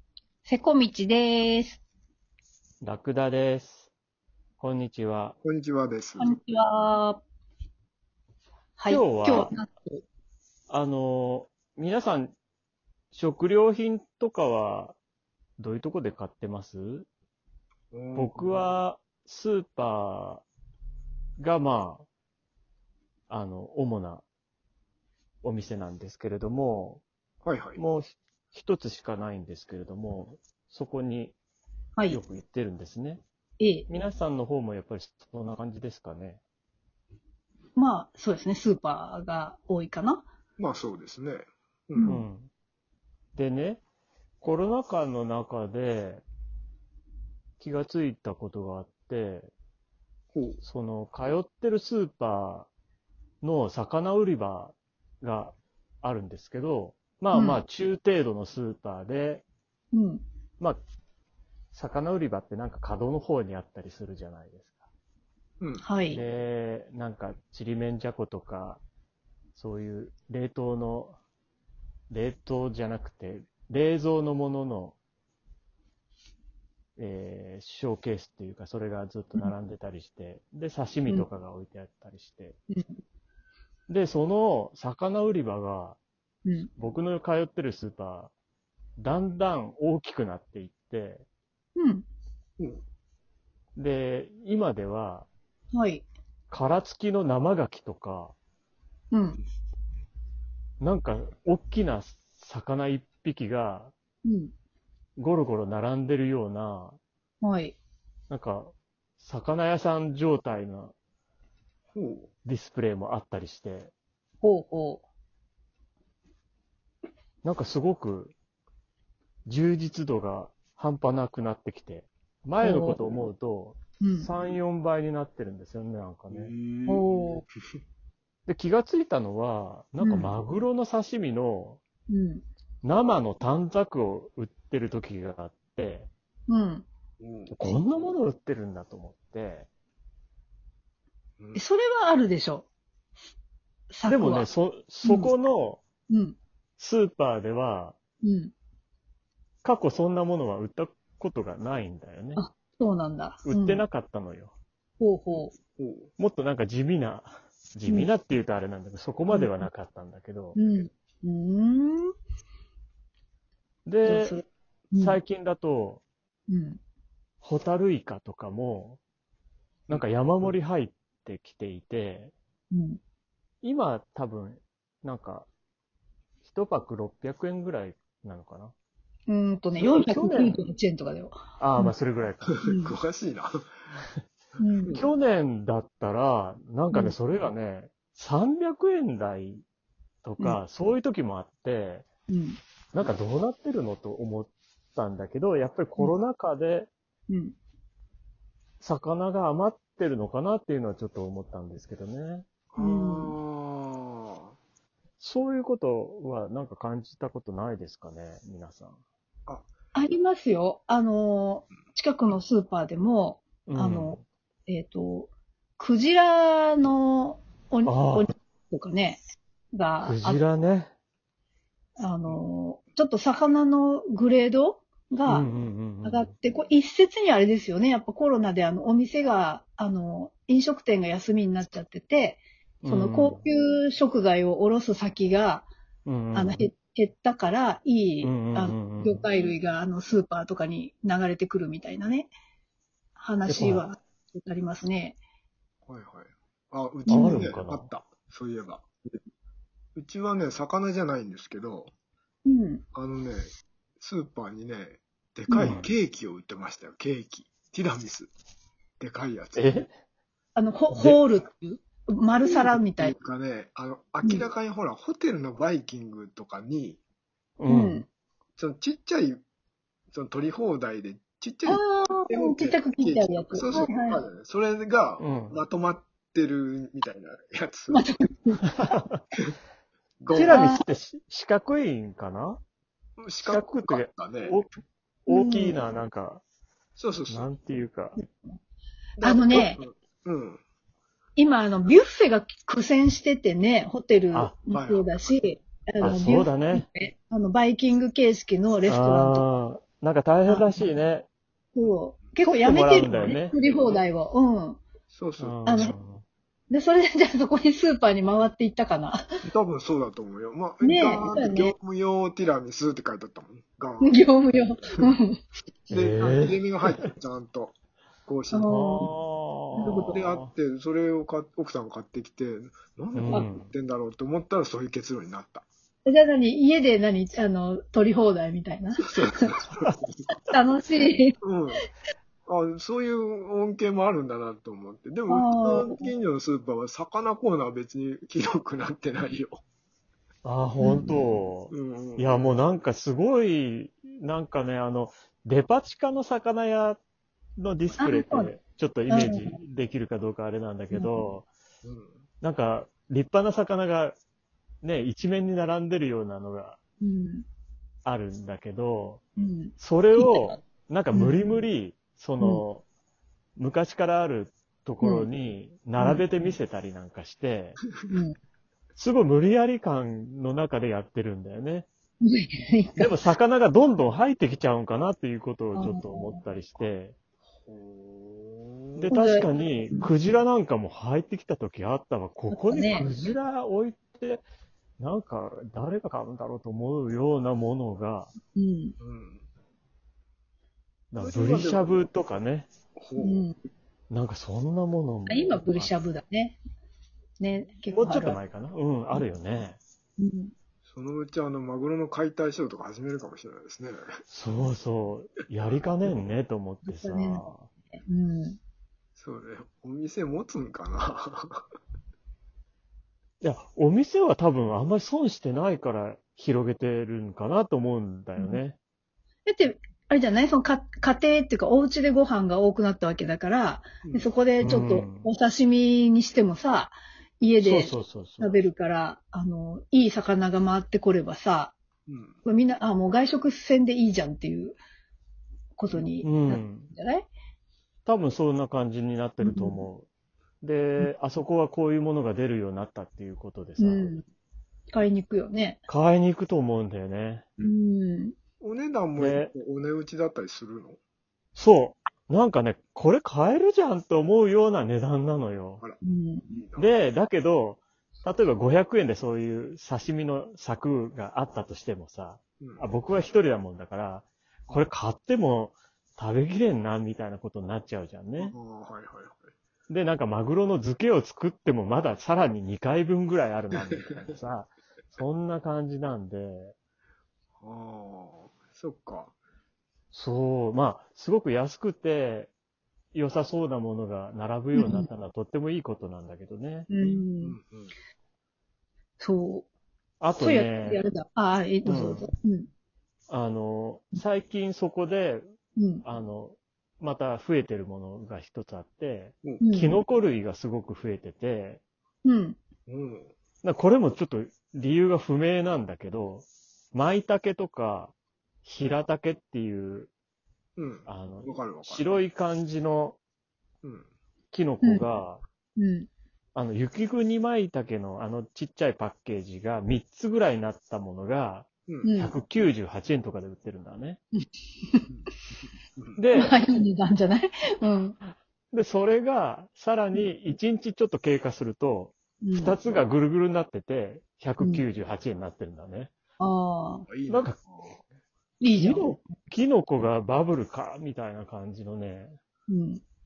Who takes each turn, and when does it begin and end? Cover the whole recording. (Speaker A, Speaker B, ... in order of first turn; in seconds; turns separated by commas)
Speaker A: 0.4-1.8, Speaker B: 2.8-3.9, Speaker B: 4.6-5.3, Speaker C: 5.4-6.4, Speaker A: 6.2-7.2, Speaker A: 8.8-10.0, Speaker B: 8.9-9.5, Speaker B: 10.7-12.3, Speaker B: 13.1-15.0, Speaker B: 15.6-17.1, Speaker C: 17.9-18.6, Speaker B: 18.1-20.4, Speaker B: 21.4-22.1, Speaker B: 23.3-24.2, Speaker B: 25.4-27.0, Speaker C: 27.4-27.8, Speaker B: 27.8-31.3, Speaker B: 32.1-33.2, Speaker A: 33.6-33.9, Speaker B: 33.9-36.4, Speaker A: 37.8-40.2, Speaker C: 40.6-42.1, Speaker A: 42.0-42.2, Speaker B: 42.0-42.5, Speaker B: 43.3-43.8, Speaker B: 44.4-46.2, Speaker B: 47.6-49.5, Speaker C: 50.3-50.6, Speaker B: 50.6-52.7, Speaker B: 53.4-59.4, Speaker A: 57.3-57.6, Speaker A: 59.9-60.2, Speaker B: 61.7-64.8, Speaker C: 65.6-65.8, Speaker A: 65.8-66.2, Speaker B: 66.1-68.8, Speaker B: 69.5-71.2, Speaker B: 72.1-75.0, Speaker B: 77.0-82.6, Speaker A: 82.7-83.0, Speaker B: 83.9-86.0, Speaker A: 86.4-86.7, Speaker B: 86.7-88.3, Speaker B: 89.0-91.2, Speaker A: 91.8-92.0, Speaker B: 93.8-95.3, Speaker A: 95.7-96.0, Speaker B: 96.5-98.3, Speaker A: 99.1-99.4, Speaker B: 100.8-103.9, Speaker A: 104.2-104.5, Speaker B: 105.2-107.0, Speaker A: 107.4-107.8, Speaker B: 108.3-110.9, Speaker C: 111.9-112.3, Speaker B: 112.4-113.9, Speaker A: 114.4-115.0, Speaker B: 117.4-118.3, Speaker B: 119.5-126.5, Speaker A: 122.6-123.0, Speaker A: 124.0-124.3, Speaker C: 126.3-127.8, Speaker A: 126.9-127.4, Speaker B: 128.5-131.8, Speaker A: 130.0-130.3, Speaker A: 132.1-132.4, Speaker B: 132.8-136.1, Speaker A: 136.5-136.8, Speaker C: 137.2-137.6, Speaker B: 137.5-139.7, Speaker A: 141.5-142.7, Speaker A: 143.9-144.5, Speaker B: 144.0-145.8, Speaker A: 145.0-145.3, Speaker A: 146.1-146.4, Speaker B: 146.8-148.0, Speaker A: 148.2-148.5, Speaker B: 149.6-152.4, Speaker A: 152.4-153.8, Speaker B: 153.4-154.5, Speaker A: 155.0-155.5, Speaker C: 155.3-156.1, Speaker B: 156.2-160.6, Speaker A: 159.3-159.6, Speaker A: 160.5-162.1, Speaker B: 163.8-164.4, Speaker A: 164.0-165.2, Speaker B: 164.9-166.0, Speaker A: 166.5-166.8, Speaker B: 167.4-169.0, Speaker B: 169.9-172.3, Speaker C: 169.9-170.5, Speaker A: 172.7-173.0, Speaker B: 173.6-175.5, Speaker B: 176.4-178.7, Speaker A: 179.3-181.9, Speaker B: 179.8-180.6, Speaker B: 181.6-182.6, Speaker C: 182.5-183.7, Speaker A: 182.6-182.9, Speaker A: 184.6-185.0, Speaker B: 184.9-189.6, Speaker A: 186.9-187.2, Speaker B: 190.2-192.1, Speaker A: 192.3-192.6, Speaker B: 192.9-196.9, Speaker A: 197.3-197.6, Speaker B: 198.8-202.4, Speaker C: 202.7-204.6, Speaker A: 202.8-203.4, Speaker B: 205.2-209.0, Speaker A: 209.9-219.2, Speaker B: 213.7-214.2, Speaker B: 217.8-218.3, Speaker A: 219.7-220.4, Speaker B: 220.0-220.9, Speaker A: 222.0-225.5, Speaker B: 225.3-226.3, Speaker A: 226.0-235.7, Speaker B: 232.8-233.4, Speaker B: 236.1-236.6, Speaker A: 236.3-242.3, Speaker B: 238.2-239.2, Speaker A: 243.2-245.2, Speaker B: 243.5-243.8, Speaker C: 245.9-248.8, Speaker A: 247.1-247.4, Speaker B: 247.1-247.9, Speaker C: 249.9-251.9, Speaker A: 252.4-252.8, Speaker C: 252.9-258.3, Speaker A: 255.5-255.8, Speaker B: 255.6-255.9, Speaker C: 259.0-259.9, Speaker B: 259.6-259.9, Speaker A: 260.6-263.1, Speaker B: 260.9-261.2, Speaker C: 262.4-267.0, Speaker B: 267.6-268.0, Speaker A: 267.7-268.1, Speaker C: 268.6-269.4, Speaker C: 270.1-278.0, Speaker A: 271.6-274.2, Speaker B: 275.2-275.6, Speaker A: 277.9-278.7, Speaker B: 278.9-279.2, Speaker C: 280.2-280.6, Speaker B: 280.3-282.6, Speaker A: 280.4-280.8, Speaker C: 283.2-284.6, Speaker B: 283.4-286.4, Speaker A: 285.3-285.8, Speaker C: 286.9-287.5, Speaker B: 287.3-288.2, Speaker C: 289.2-290.6, Speaker A: 289.2-289.8, Speaker A: 291.4-299.4, Speaker C: 294.7-295.1, Speaker B: 296.0-296.9, Speaker B: 298.9-301.3, Speaker A: 301.7-304.8, Speaker B: 302.4-303.6, Speaker C: 303.6-304.0, Speaker C: 305.1-305.9, Speaker B: 305.4-306.2, Speaker A: 305.7-305.9, Speaker A: 306.7-309.2, Speaker C: 309.4-314.2, Speaker A: 310.8-311.7, Speaker A: 314.0-315.4, Speaker C: 315.9-317.7, Speaker B: 315.9-317.1, Speaker C: 318.2-318.7, Speaker A: 318.5-319.1, Speaker B: 318.6-320.5, Speaker A: 319.7-320.2, Speaker C: 320.1-325.6, Speaker B: 323.1-323.7, Speaker A: 326.0-329.5, Speaker C: 329.1-330.2, Speaker A: 330.5-331.4, Speaker C: 331.4-331.8, Speaker C: 332.4-339.6, Speaker A: 335.3-336.1, Speaker B: 340.4-347.0, Speaker A: 340.8-341.2, Speaker C: 341.7-342.6, Speaker B: 347.6-351.5, Speaker A: 348.0-348.5, Speaker A: 349.1-349.6, Speaker A: 350.9-351.3, Speaker C: 351.8-352.2, Speaker B: 352.4-354.1, Speaker B: 354.8-356.8, Speaker A: 357.0-357.4, Speaker B: 358.1-359.2, Speaker A: 359.4-360.5, Speaker B: 359.8-362.8, Speaker A: 361.1-361.4, Speaker B: 363.6-367.8, Speaker A: 365.0-365.3, Speaker A: 366.0-366.2, Speaker A: 368.1-368.4, Speaker B: 368.9-371.9, Speaker A: 372.2-373.1, Speaker B: 373.0-377.1, Speaker A: 375.8-376.4, Speaker C: 377.6-379.1, Speaker B: 379.0-384.4, Speaker A: 379.1-380.1, Speaker A: 382.5-383.1, Speaker B: 385.0-388.3, Speaker A: 388.5-388.9, Speaker C: 389.0-389.5, Speaker B: 391.1-392.7, Speaker C: 391.1-392.1, Speaker C: 392.9-393.5, Speaker A: 393.2-393.6, Speaker B: 394.1-395.9, Speaker A: 395.3-396.6, Speaker A: 397.4-398.4, Speaker B: 397.9-399.8, Speaker A: 400.2-400.5, Speaker C: 400.8-404.2, Speaker B: 404.3-407.7, Speaker A: 406.9-407.4, Speaker A: 407.9-408.6, Speaker C: 409.1-411.7, Speaker B: 413.4-418.8, Speaker A: 419.4-431.7, Speaker C: 424.0-424.3, Speaker B: 424.6-425.2, Speaker B: 427.6-428.6, Speaker C: 432.1-432.4, Speaker A: 432.4-434.8, Speaker A: 435.8-437.3, Speaker B: 436.2-436.9, Speaker B: 438.1-440.1, Speaker A: 439.4-439.9, Speaker B: 440.6-444.1, Speaker A: 443.8-444.2, Speaker A: 444.9-445.8, Speaker B: 445.9-447.4, Speaker A: 447.6-448.3, Speaker C: 448.6-451.0, Speaker B: 449.1-449.5, Speaker B: 451.6-455.8, Speaker C: 455.8-456.9, Speaker A: 456.0-456.5, Speaker B: 456.8-468.5, Speaker C: 462.6-462.9, Speaker C: 468.4-469.4, Speaker B: 469.9-476.7, Speaker C: 473.8-474.2, Speaker C: 477.6-479.3, Speaker B: 480.1-482.5, Speaker B: 483.1-486.9, Speaker A: 484.7-485.1, Speaker A: 486.9-487.6, Speaker C: 487.0-487.9, Speaker A: 489.2-489.7, Speaker B: 490.2-491.0, Speaker A: 490.4-492.7, Speaker B: 491.8-492.2, Speaker B: 493.3-495.4, Speaker A: 495.8-496.0, Speaker B: 496.0-501.8, Speaker A: 499.6-500.0, Speaker A: 502.2-502.6, Speaker C: 502.9-503.3, Speaker B: 503.6-508.1, Speaker B: 508.6-510.1, Speaker C: 510.8-512.2, Speaker B: 511.1-513.2, Speaker C: 513.8-514.1, Speaker B: 514.5-515.4, Speaker A: 515.8-516.1, Speaker B: 516.5-524.2, Speaker A: 522.0-522.3, Speaker A: 524.4-525.1, Speaker B: 526.2-526.6, Speaker A: 526.3-528.2, Speaker B: 528.7-536.1, Speaker A: 532.4-532.8, Speaker A: 534.6-534.8, Speaker A: 536.4-537.1, Speaker C: 537.1-538.0, Speaker B: 537.3-537.6, Speaker A: 538.6-539.1, Speaker B: 538.7-542.4, Speaker A: 542.7-543.0